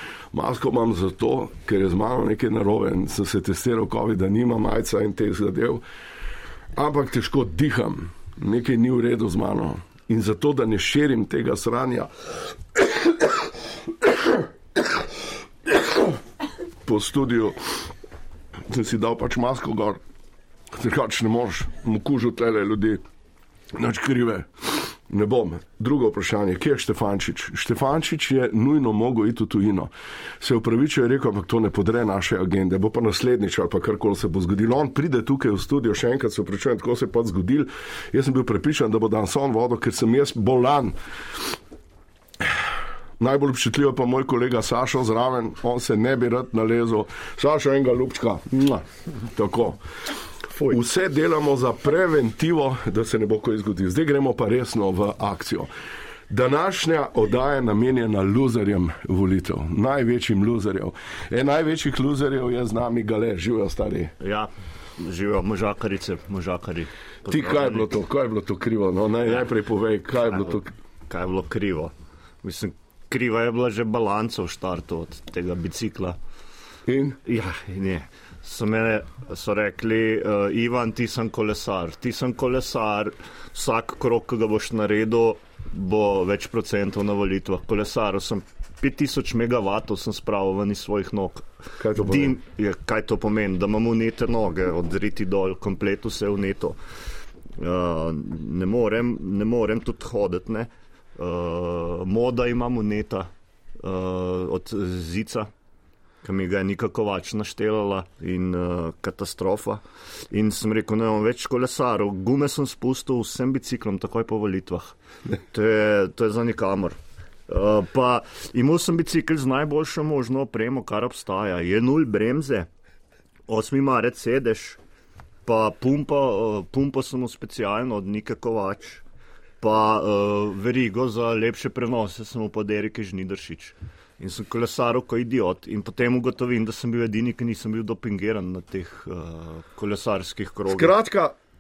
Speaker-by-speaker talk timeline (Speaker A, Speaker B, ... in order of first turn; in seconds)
Speaker A: 0.3-5.8, 6.8-12.1, 12.7-13.3, 14.0-14.4, 15.7-16.1, 16.9-17.8, 18.7-20.0, 20.7-23.0, 23.8-41.0, 43.2-49.8, 50.5-55.7, 56.3-64.1, 67.3-70.7, 76.9-77.2, 91.8-92.4, 140.7-141.3
Speaker B: 64.2-67.8, 70.3-76.2, 77.2-96.8, 97.6-105.5, 106.2-114.9, 115.5-122.7, 123.5-124.8, 125.5-129.0, 129.6-140.9